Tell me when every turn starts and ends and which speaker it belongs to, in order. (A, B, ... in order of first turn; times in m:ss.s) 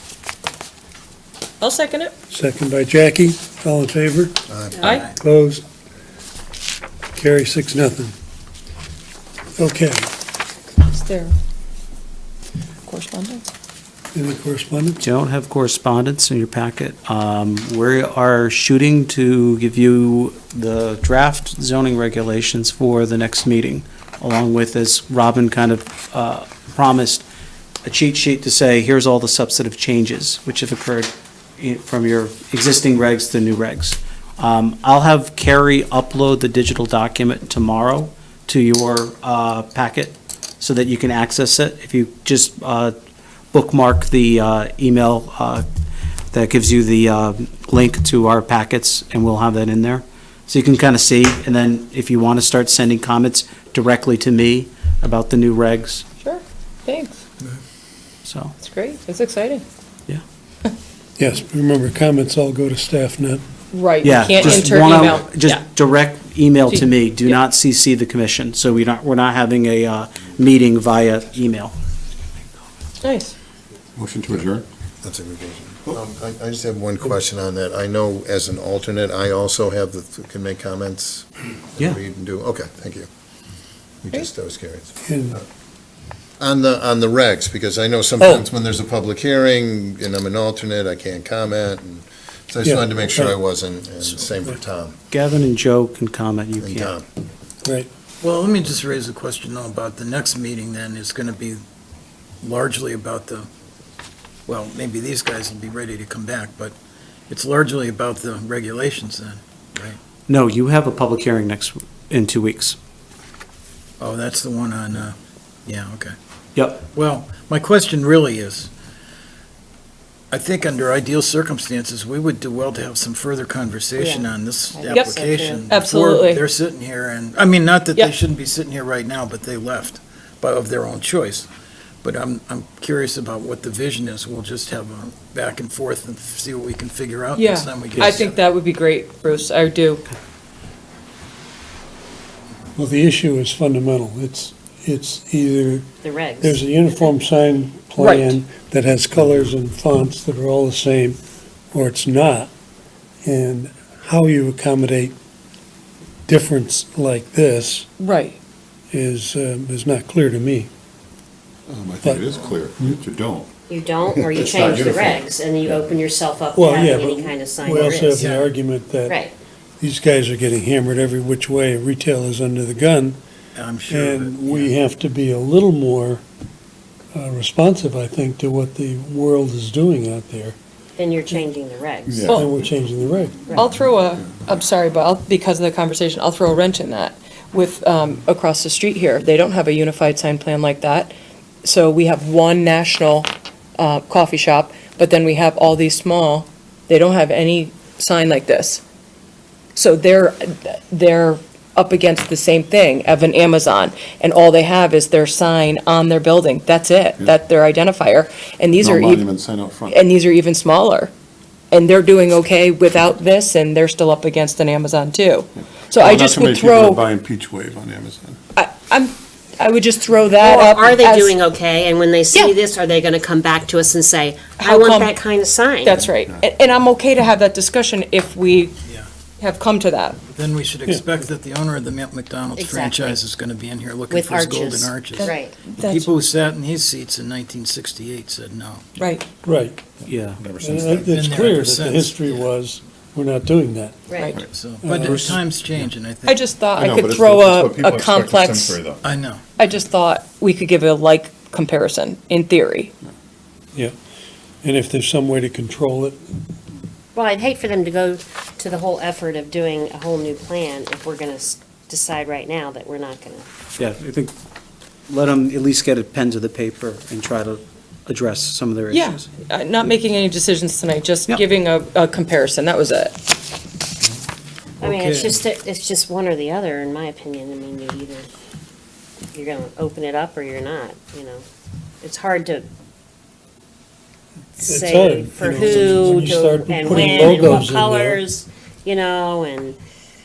0:01.6-0:02.1 A
0:02.3-0:04.4 B
0:04.5-0:04.9 C
0:04.8-0:05.1 A
0:04.9-0:05.6 B
0:07.1-0:08.1 B
0:09.6-0:10.1 B
0:10.8-0:11.3 A
0:12.9-0:13.5 A
0:14.1-0:15.0 B
0:15.0-0:27.2 D
0:27.8-0:42.9 D
0:43.5-0:45.6 D
0:46.3-0:56.0 D
0:56.2-0:57.2 A
0:58.2-0:58.5 D
0:58.6-0:59.6 A
1:01.2-1:03.4 B
1:03.7-1:05.6 A
1:04.0-1:11.7 D
1:06.7-1:07.4 A
1:13.0-1:13.3 A
1:14.0-1:14.6 E
1:15.0-1:23.1 C
1:24.0-1:25.4 C
1:25.0-1:25.4 B
1:26.4-1:34.9 C
1:32.6-1:33.3 B
1:35.1-1:36.9 D
1:36.6-1:37.0 C
1:38.2-1:41.6 F
1:42.4-1:43.5 F
1:44.4-1:46.8 F
1:47.3-1:50.0 F
1:50.3-1:52.8 D
1:54.0-1:56.2 F
1:56.5-1:56.8 D
1:56.9-1:58.7 F
2:00.3-2:11.5 F
2:03.9-2:05.8 G
2:04.8-2:06.4 A
2:12.0-2:18.4 F
2:17.4-2:20.0 A
2:22.7-2:31.2 B
2:26.0-2:26.6 G
2:28.0-2:28.4 A
2:31.7-2:32.5 B
2:33.2-2:35.2 B
2:36.3-2:37.9 B
2:38.0-2:38.4 A
2:38.9-2:40.7 B
2:41.7-2:43.5 E
2:42.0-2:42.3 B
2:43.7-2:48.2 G
2:44.3-2:45.2 E
2:46.5-2:49.2 B
2:48.1-2:48.5 F
2:49.1-2:49.3 G
2:49.8-2:53.2 B
2:53.5-2:54.7 F
2:53.9-2:56.2 B
2:57.1-3:00.6 B
3:01.0-3:02.3 G
3:02.1-3:02.4 E
3:02.3-3:03.4 B
3:03.5-3:18.8 A
3:19.7-3:29.3 A
3:28.8-3:30.0 E
3:29.9-3:31.1 A
3:31.7-3:37.0 A
3:35.9-3:38.4 E
3:38.5-3:41.3 A
3:40.4-3:46.0 G
3:44.6-3:45.1 A
3:45.8-3:48.8 A
3:48.8-3:49.1 F
3:49.4-3:50.2 A
3:50.3-3:55.2 F
3:52.5-3:53.2 G
3:54.1-3:55.6 G
3:55.1-3:56.1 A
3:55.8-3:59.0 F
3:59.0-3:59.2 A
3:59.4-3:59.8 B
4:00.0-4:00.4 D
4:00.4-4:01.1 E
4:00.6-4:04.1 B
4:01.1-4:02.5 F
4:04.1-4:04.4 G
4:04.4-4:06.3 F
4:04.8-4:05.4 B
4:05.0-4:05.3 D
4:06.2-4:08.8 A
4:06.7-4:09.0 E
4:09.0-4:09.4 F
4:09.6-4:12.9 A
4:14.6-4:16.2 B
4:17.1-4:23.5 G
4:23.8-4:24.3 D
4:25.1-4:29.2 D
4:28.9-4:33.2 A
4:34.8-4:38.3 G
4:35.0-4:35.2 F
4:39.3-4:41.4 G
4:42.0-4:42.7 G
4:44.6-4:49.8 G
4:44.6-4:48.2 B